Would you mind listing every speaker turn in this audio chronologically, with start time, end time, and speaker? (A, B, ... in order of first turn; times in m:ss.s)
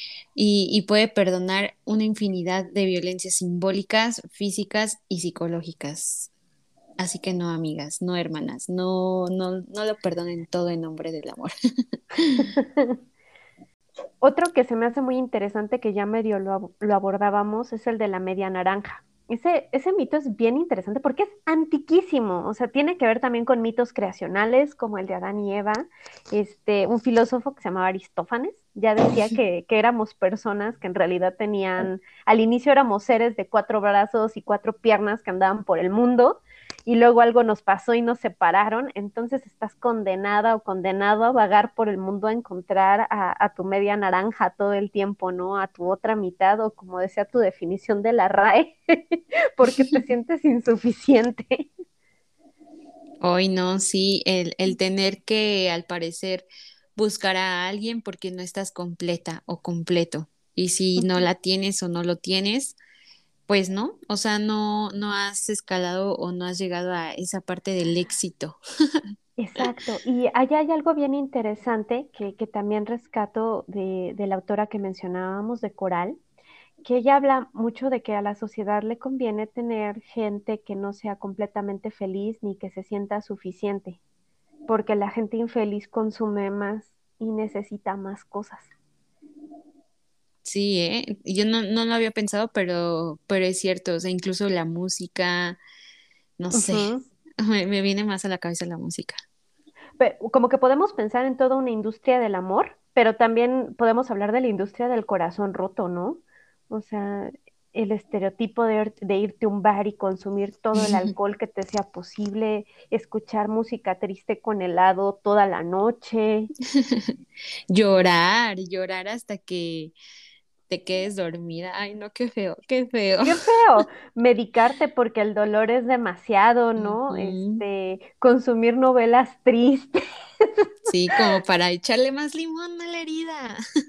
0:00.4-0:06.3 A
0:07.0-0:11.5 A
0:12.1-0:12.5 A
0:12.5-0:13.0 B
0:14.2-0:51.7 B
0:53.2-1:02.8 A
1:01.0-1:01.2 B
1:03.5-1:09.0 A
1:09.4-1:16.2 B
1:16.8-1:24.0 B
1:24.7-1:28.7 B
1:30.4-1:35.6 A
1:36.4-1:36.9 A
1:36.5-1:37.0 B
1:37.4-1:39.2 A
1:40.0-1:56.5 B
1:56.7-1:57.1 A
1:57.7-1:59.9 A
2:00.7-2:03.5 A
2:03.2-2:10.7 B
2:06.8-2:07.6 A
2:10.9-2:13.6 A